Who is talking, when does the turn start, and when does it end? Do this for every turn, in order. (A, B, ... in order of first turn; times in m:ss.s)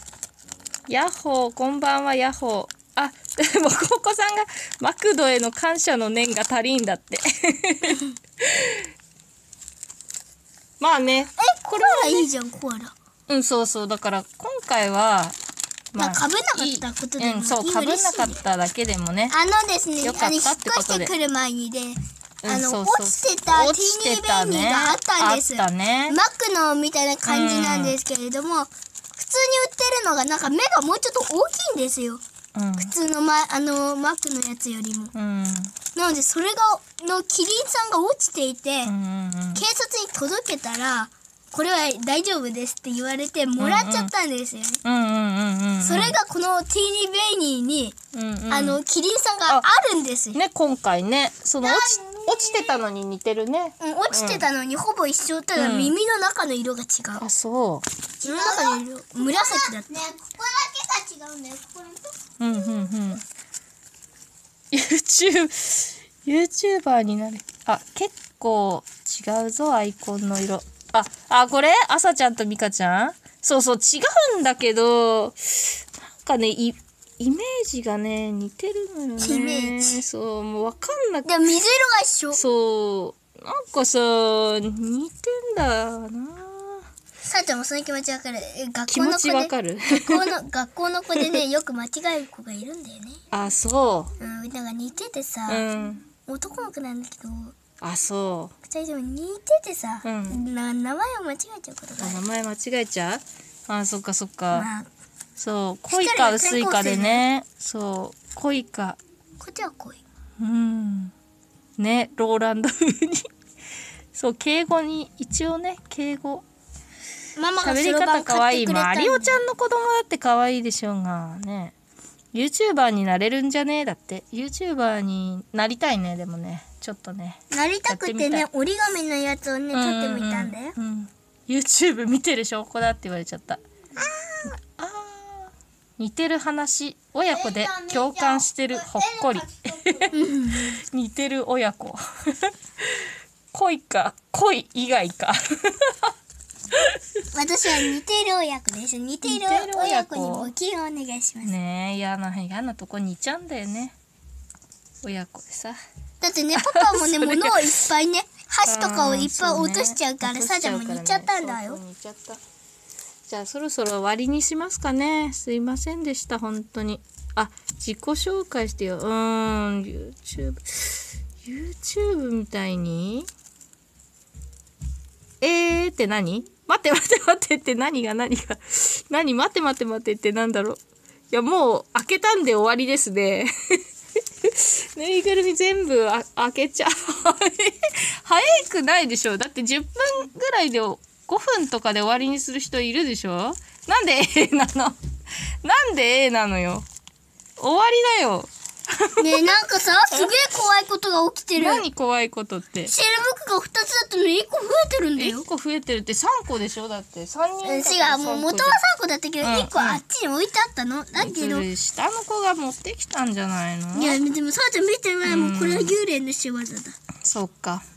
0:00.9-0:08.9 A
0:10.8-0:12.3 A
0:11.4-0:12.9 B
0:13.3-0:15.4 A
0:15.9-0:19.4 A
0:16.0-0:18.4 B
0:19.3-0:32.2 B
0:20.0-0:21.1 A
0:22.4-0:26.2 A
0:27.2-0:28.0 A
0:32.6-0:32.9 A
0:32.8-0:35.1 B
0:35.1-0:35.7 A
0:36.0-0:38.9 B
0:38.9-0:39.6 A
0:39.6-0:44.8 B
0:43.6-0:44.1 A
0:44.8-0:46.2 A
0:45.8-0:48.0 B
0:48.1-0:48.8 A
0:48.5-0:50.4 B
0:50.3-0:54.4 A
0:51.6-0:51.9 B
0:51.8-0:52.7 C
0:53.8-0:57.2 B
0:55.6-0:55.9 A
0:57.2-0:57.9 A
0:58.2-0:59.9 B
0:58.2-1:02.2 C
1:02.4-1:03.2 A
1:04.7-1:21.5 A
1:19.2-1:20.0 B
1:21.2-1:22.4 B
1:22.3-1:26.9 A
1:27.3-1:33.2 B
1:28.9-1:30.3 A
1:33.3-1:34.1 A
1:34.2-1:35.7 B
1:35.5-1:36.0 A
1:36.3-1:37.6 B
1:37.8-1:38.5 A
1:38.6-1:42.2 B
1:40.0-1:40.4 A
1:42.0-1:44.7 A
1:44.5-1:44.9 B
1:45.4-1:49.0 A
1:45.9-1:47.2 B
1:49.4-1:50.0 B
1:50.4-1:51.1 A
1:51.8-1:53.3 A
1:54.1-1:56.4 A
1:57.4-1:59.4 B
1:57.6-2:01.8 A
2:02.3-2:08.5 A
2:07.5-2:10.8 B
2:09.7-2:13.6 A
2:14.4-2:26.1 A
2:17.3-2:20.2 C
2:20.1-2:20.8 B
2:27.3-2:31.5 B
2:29.2-2:30.5 A
2:31.4-2:34.0 A
2:35.0-2:35.8 A
2:36.2-2:41.8 B
2:36.6-2:37.8 A
2:38.6-2:42.4 A
2:43.3-2:53.3 A
2:55.4-3:03.5 A
3:04.4-3:15.0 A
3:15.6-3:16.9 A
3:17.6-3:19.6 A
3:19.2-3:21.9 B
3:21.6-3:22.9 A
3:22.9-3:25.5 B
3:25.2-3:28.8 A
3:27.6-3:31.7 B
3:29.4-3:30.0 A
3:31.2-3:34.2 A
3:33.9-3:37.0 B
3:35.2-3:36.0 A
3:37.2-3:37.8 A